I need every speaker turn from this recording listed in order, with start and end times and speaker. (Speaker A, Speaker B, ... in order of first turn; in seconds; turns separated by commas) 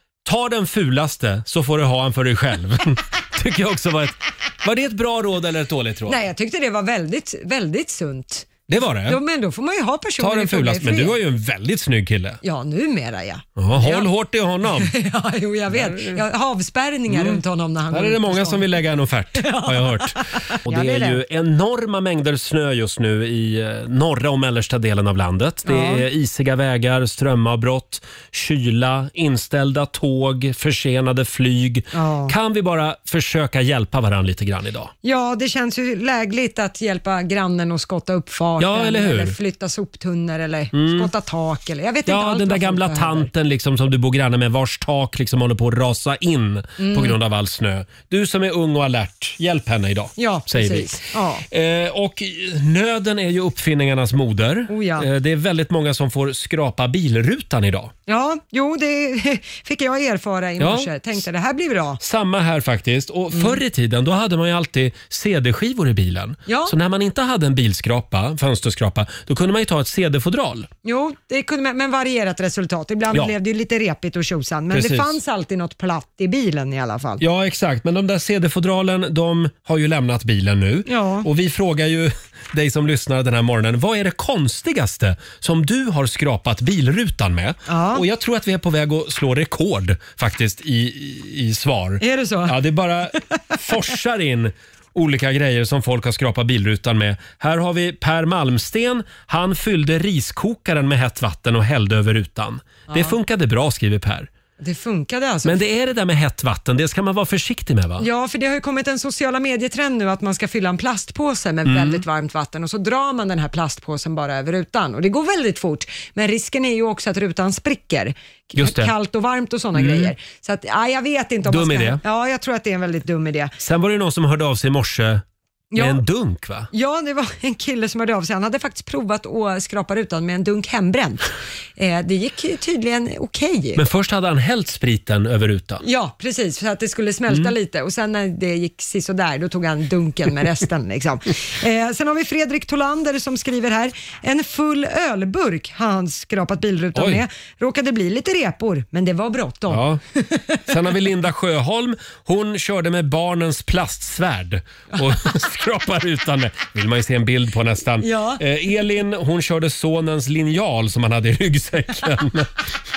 Speaker A: 0.2-6.2, Speaker B: 6.1-11.1, Speaker A: 8.7-9.2, Speaker A: 10.2-12.4, Speaker B: 12.4-14.1, Speaker A: 13.6-14.9, Speaker B: 14.8-18.6, Speaker A: 15.7-16.2, Speaker A: 17.1-34.9, Speaker B: 19.4-21.2, Speaker B: 25.6-26.1, Speaker B: 31.9-32.4, Speaker B: 35.0-43.3, Speaker A: 38.6-39.4, Speaker A: 40.7-41.1, Speaker A: 42.0-50.9, Speaker B: 46.8-47.2, Speaker B: 50.2-51.4, Speaker A: 51.5-57.9, Speaker B: 54.7-55.1, Speaker B: 58.1-62.0, Speaker A: 60.6-60.9, Speaker A: 62.0-70.7, Speaker B: 63.3-63.6, Speaker B: 66.5-66.7, Speaker B: 70.8-77.2, Speaker A: 74.7-75.2, Speaker A: 77.2-104.3, Speaker B: 80.9-81.3, Speaker B: 87.7-88.0, Speaker B: 92.0-92.6, Speaker B: 102.9-103.2, Speaker B: 104.6-105.6, Speaker A: 105.4-108.0, Speaker B: 108.0-123.5, Speaker A: 111.7-112.0, Speaker A: 118.5-118.9, Speaker A: 119.7-120.1, Speaker A: 121.5-122.0, Speaker A: 123.6-125.2, Speaker B: 125.7-126.0, Speaker A: 125.7-126.7, Speaker B: 126.7-133.8, Speaker A: 133.8-135.8, Speaker B: 135.8-150.6, Speaker A: 146.9-147.2, Speaker A: 149.7-150.0, Speaker A: 150.7-162.6, Speaker B: 158.0-158.4